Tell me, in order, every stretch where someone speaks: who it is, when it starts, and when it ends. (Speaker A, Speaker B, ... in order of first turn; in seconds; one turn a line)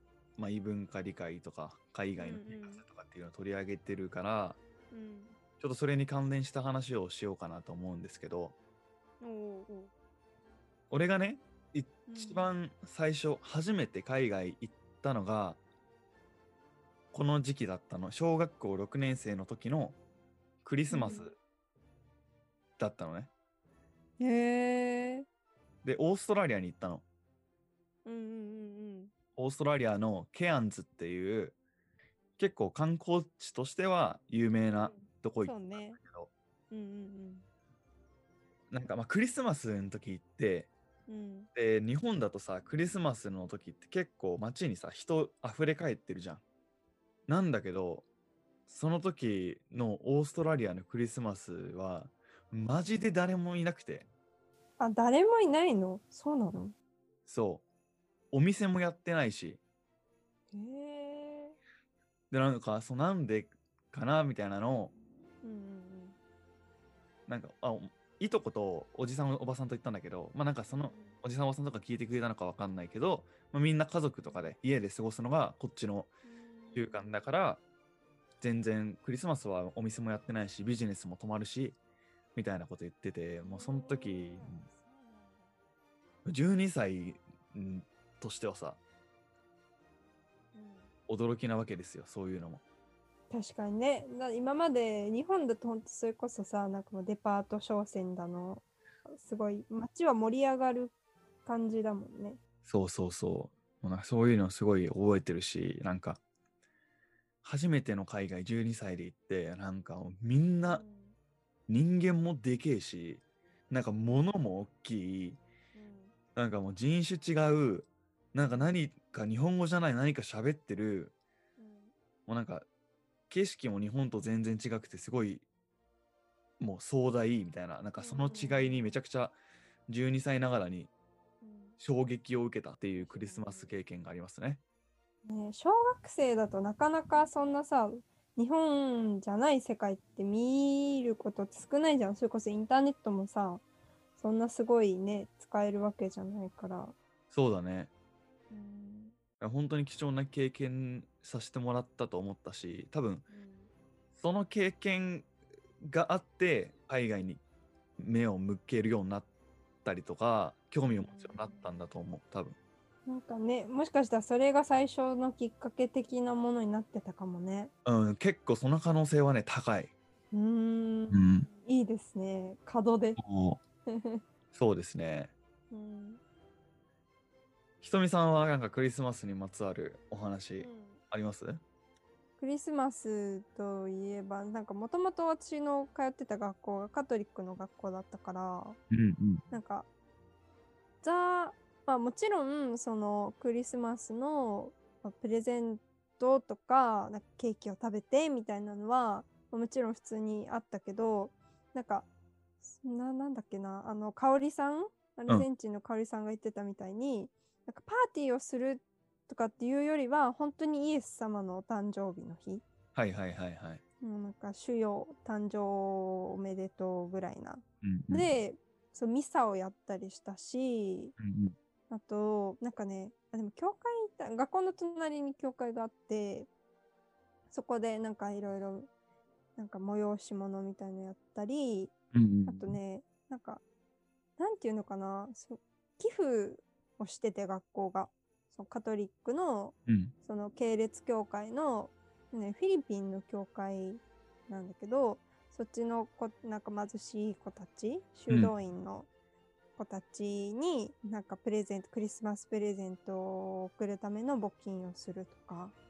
Speaker A: 0.4-4.6
Speaker B: 2.2-2.8
Speaker B: 4.9-5.3
Speaker A: 5.6-8.5
Speaker B: 9.2-9.9
Speaker A: 10.9-15.6
Speaker B: 12.1-12.5
Speaker A: 17.1-20.0
Speaker A: 20.6-21.3
Speaker B: 20.9-21.3
Speaker A: 22.8-23.3
Speaker B: 24.2-25.2
Speaker A: 25.8-27.0
Speaker B: 28.0-29.1
Speaker A: 29.4-31.6
Speaker A: 32.4-36.3
Speaker B: 34.8-36.0
Speaker B: 36.7-37.4
Speaker A: 38.7-40.7
Speaker B: 41.1-41.5
Speaker A: 41.5-46.4
Speaker A: 47.3-48.1
Speaker A: 48.7-54.1
Speaker B: 54.8-56.7
Speaker A: 57.2-57.6
Speaker A: 58.3-59.6
Speaker B: 60.5-61.6
Speaker A: 62.3-64.9
Speaker B: 65.4-66.2
Speaker A: 67.3-76.1
Speaker B: 70.7-71.2
Speaker B: 76.2-77.3
Speaker A: 76.7-77.6
Speaker A: 78.4-81.8
Speaker A: 82.3-84.6
Speaker B: 83.4-85.5
Speaker A: 86.2-88.8
Speaker B: 90.5-90.9
Speaker A: 91.1-92.6
Speaker B: 93.3-100.9
Speaker B: 101.4-102.4
Speaker A: 102.6-106.2
Speaker A: 107.4-110.8
Speaker B: 110.7-111.1
Speaker A: 111.7-115.4
Speaker B: 115.7-116.1
Speaker A: 116.3-121.1
Speaker B: 121.6-121.9
Speaker A: 122.3-122.7
Speaker A: 123.3-125.5
Speaker A: 126.6-129.3
Speaker B: 128.0-129.0
Speaker A: 129.9-130.9
Speaker B: 131.4-131.8
Speaker A: 131.8-134.6
Speaker B: 133.0-133.7
Speaker B: 135.2-143.6
Speaker B: 144.2-146.9
Speaker A: 147.3-147.9
Speaker B: 148.5-149.1
Speaker A: 149.4-153.3
Speaker B: 153.3-153.7
Speaker A: 154.1-155.3
Speaker A: 155.8-157.4
Speaker A: 158.0-159.3
Speaker A: 159.8-162.6
Speaker B: 160.9-161.7
Speaker B: 163.1-167.7
Speaker A: 167.8-169.9
Speaker B: 170.3-173.2
Speaker A: 171.1-171.5
Speaker A: 173.2-173.6
Speaker B: 173.9-174.2
Speaker A: 174.5-175.3
Speaker B: 175.7-176.2
Speaker A: 177.8-181.6
Speaker B: 180.6-181.0
Speaker B: 182.4-188.8
Speaker A: 188.9-189.4
Speaker B: 189.5-189.9
Speaker B: 191.0-202.1
Speaker B: 202.6-212.6
Speaker A: 212.9-213.8
Speaker B: 214.0-221.1
Speaker A: 217.8-218.3
Speaker A: 221.2-221.6
Speaker B: 221.9-226.5
Speaker B: 227.5-228.9
Speaker B: 229.6-231.9
Speaker A: 232.1-232.8
Speaker B: 232.4-233.6
Speaker B: 234.4-249.1
Speaker A: 239.9-240.1
Speaker B: 249.8-255.7